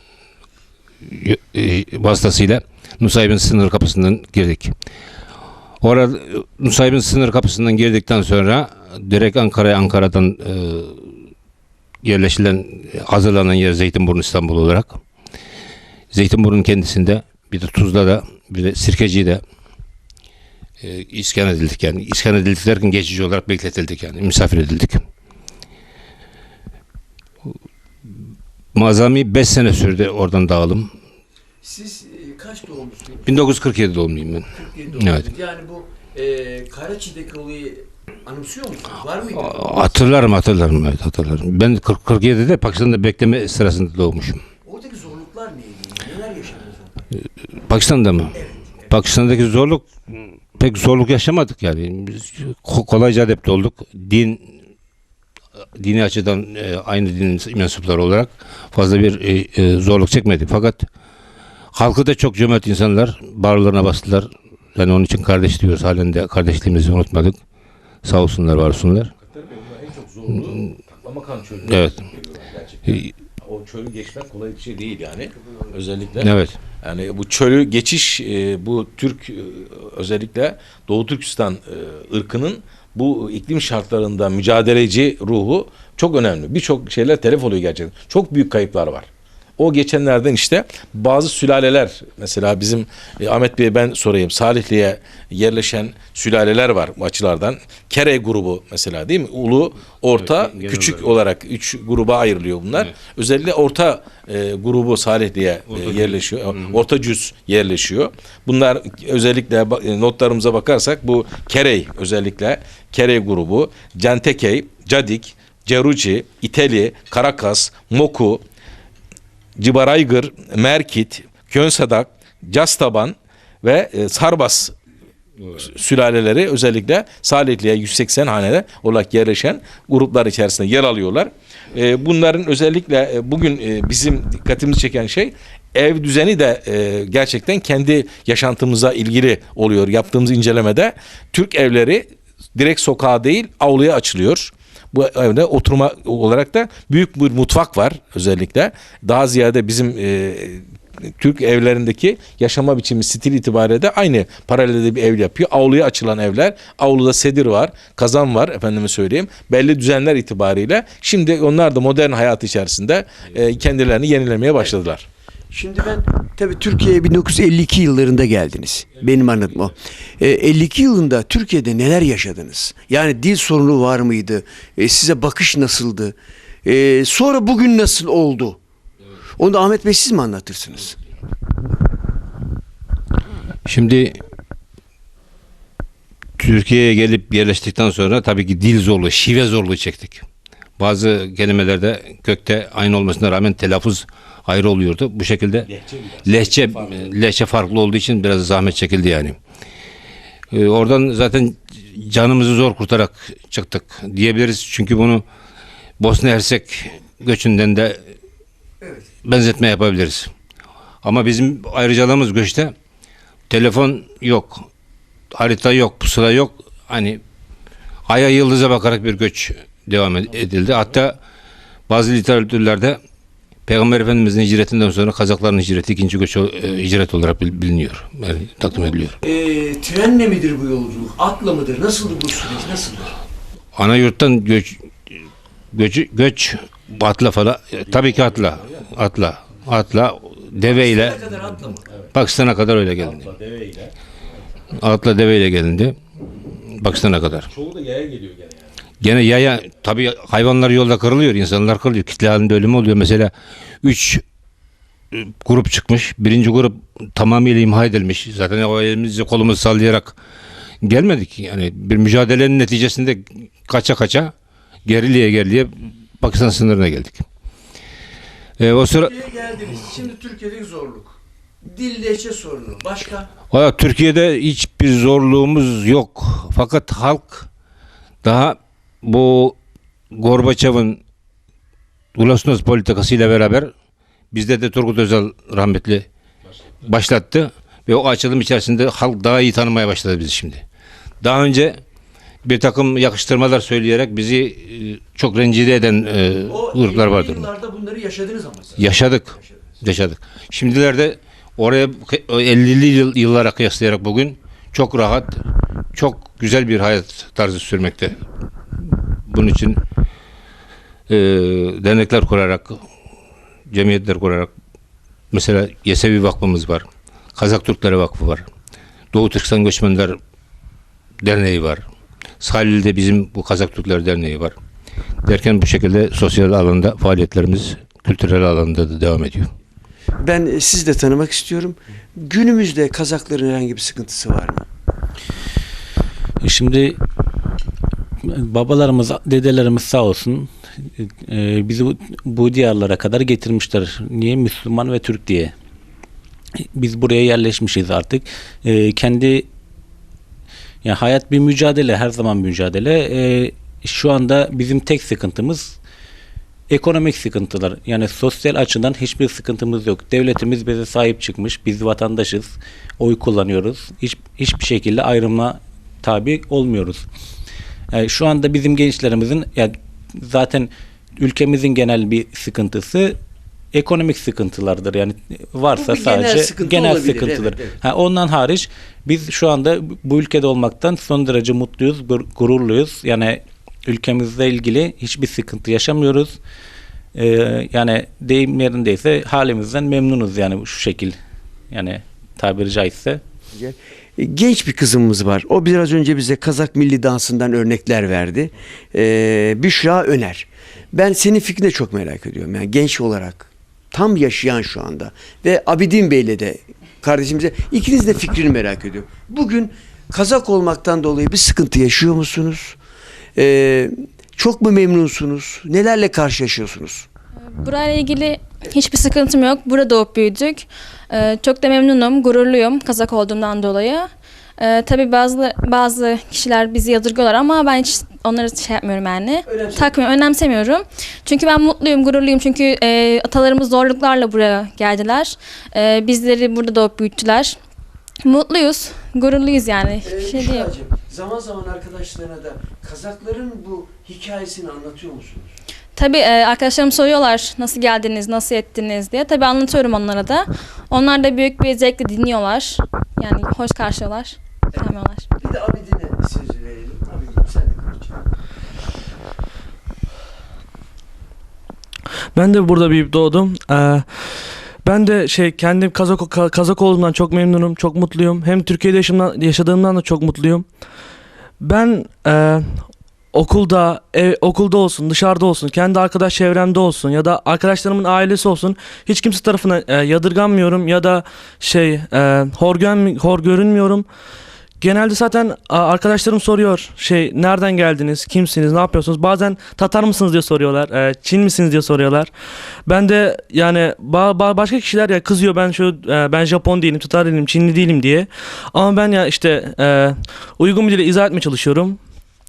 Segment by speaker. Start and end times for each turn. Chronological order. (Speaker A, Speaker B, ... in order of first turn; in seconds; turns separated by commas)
Speaker A: 1.0-4.7, Speaker A: 5.8-11.1, Speaker A: 12.0-15.0, Speaker A: 16.1-19.4, Speaker A: 20.8-25.0, Speaker A: 28.7-30.9, Speaker B: 31.6-33.4, Speaker A: 33.2-34.5, Speaker B: 34.5-39.7, Speaker A: 35.0-35.2, Speaker A: 39.4-44.4, Speaker B: 44.6-47.0, Speaker A: 47.6-48.3, Speaker B: 48.3-49.0, Speaker A: 48.9-54.4, Speaker A: 55.8-60.9, Speaker A: 61.7-67.4, Speaker A: 68.0-69.1, Speaker C: 69.2-76.3, Speaker A: 71.7-72.0, Speaker A: 76.2-76.5, Speaker C: 76.8-118.4, Speaker A: 100.2-101.1, Speaker A: 105.7-106.1, Speaker C: 119.6-124.7, Speaker C: 125.5-150.6, Speaker C: 151.2-165.1, Speaker B: 165.5-178.6, Speaker B: 179.4-181.0, Speaker A: 183.7-184.2, Speaker A: 186.4-190.2, Speaker A: 190.8-195.7, Speaker C: 195.7-197.1, Speaker A: 196.2-199.3, Speaker A: 200.5-205.2, Speaker A: 206.0-208.0, Speaker A: 209.2-210.3, Speaker A: 211.0-212.7, Speaker A: 213.5-214.7, Speaker A: 215.3-217.2, Speaker A: 218.1-221.2, Speaker A: 221.9-223.0, Speaker A: 223.7-229.2, Speaker B: 229.2-233.1, Speaker A: 233.8-234.9, Speaker A: 235.7-241.2, Speaker C: 237.9-238.8, Speaker B: 240.6-241.8, Speaker A: 242.1-243.2, Speaker C: 243.0-243.9, Speaker A: 244.7-245.9, Speaker A: 246.7-247.5, Speaker C: 247.5-248.7, Speaker A: 249.0-253.3, Speaker A: 253.8-254.2, Speaker A: 255.1-260.2, Speaker A: 260.8-264.3, Speaker A: 264.9-267.2, Speaker A: 268.6-269.1, Speaker B: 269.0-273.3, Speaker A: 273.5-277.5, Speaker A: 278.2-279.6, Speaker A: 280.1-281.0, Speaker A: 282.1-283.7, Speaker A: 284.3-286.1, Speaker A: 286.8-290.6, Speaker A: 291.2-291.8, Speaker A: 292.4-297.5, Speaker B: 296.5-299.6, Speaker A: 298.8-305.4, Speaker A: 305.9-308.2, Speaker A: 309.2-309.8, Speaker A: 311.1-312.8, Speaker A: 313.7-314.5, Speaker A: 315.3-318.4, Speaker A: 319.1-320.2, Speaker A: 321.2-321.8, Speaker A: 322.4-324.5, Speaker A: 325.2-329.5, Speaker B: 330.2-334.7, Speaker D: 336.4-337.0, Speaker D: 338.2-345.5, Speaker D: 346.7-349.5, Speaker D: 350.8-355.8, Speaker D: 356.7-367.1, Speaker D: 367.9-373.2, Speaker D: 373.7-386.4, Speaker B: 375.7-377.7, Speaker D: 387.1-391.2, Speaker D: 391.7-393.2, Speaker B: 393.5-412.8, Speaker B: 413.4-417.1, Speaker E: 417.5-437.6, Speaker B: 429.4-429.9, Speaker E: 438.2-440.7, Speaker B: 440.0-445.5, Speaker E: 445.9-455.2, Speaker B: 454.7-458.2, Speaker F: 462.3-470.7, Speaker F: 471.6-484.1, Speaker F: 484.8-492.3, Speaker F: 492.9-502.0